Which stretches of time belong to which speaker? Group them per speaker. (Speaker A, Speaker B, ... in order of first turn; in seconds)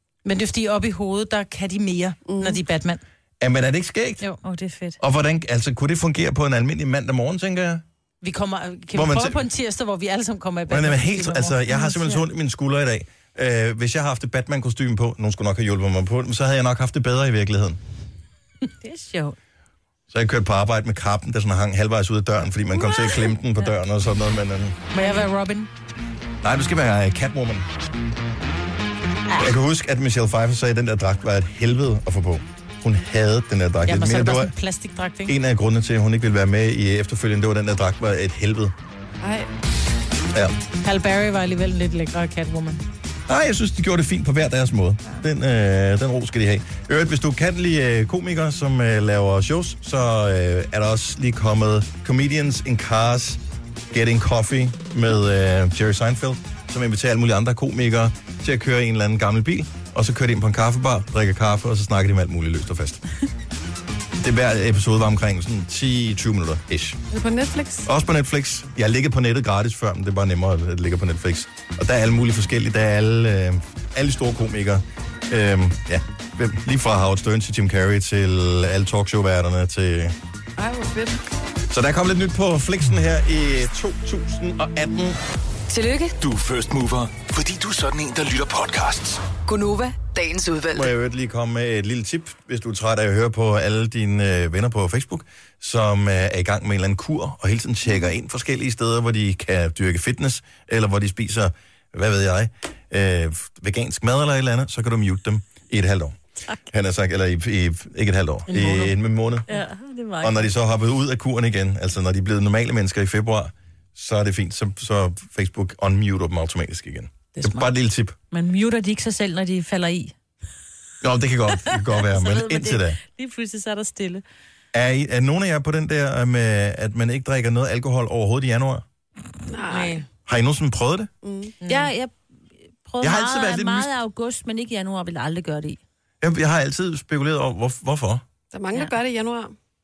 Speaker A: 0.2-3.0, 8.2-12.2, 24.9-25.7, 33.9-35.3, 40.8-42.8, 108.5-109.0, 117.3-117.7, 129.7-130.0, 131.6-131.9
Speaker B: 2.2-2.6, 39.2-39.5, 67.1-67.9, 80.6-81.2, 129.5-130.0, 131.2-131.5, 138.5-139.5
Speaker C: 3.4-4.2, 5.0-7.8, 8.9-9.5, 10.7-17.8, 20.1-24.8, 26.4-27.7, 29.4-34.5, 35.3-38.7, 43.3-63.0, 64.2-67.0, 67.8-80.1, 81.7-85.2, 90.7-109.5, 110.2-118.2, 121.0-123.0, 124.7-128.8, 130.2-131.1, 133.0-133.9, 136.2-138.2
Speaker D: 4.4-5.0, 18.8-19.4, 109.5-110.5, 118.3-120.1, 121.9-124.2, 131.7-132.1, 132.8-135.8
Speaker E: 85.7-86.2, 89.5-90.9
Speaker F: 86.2-89.2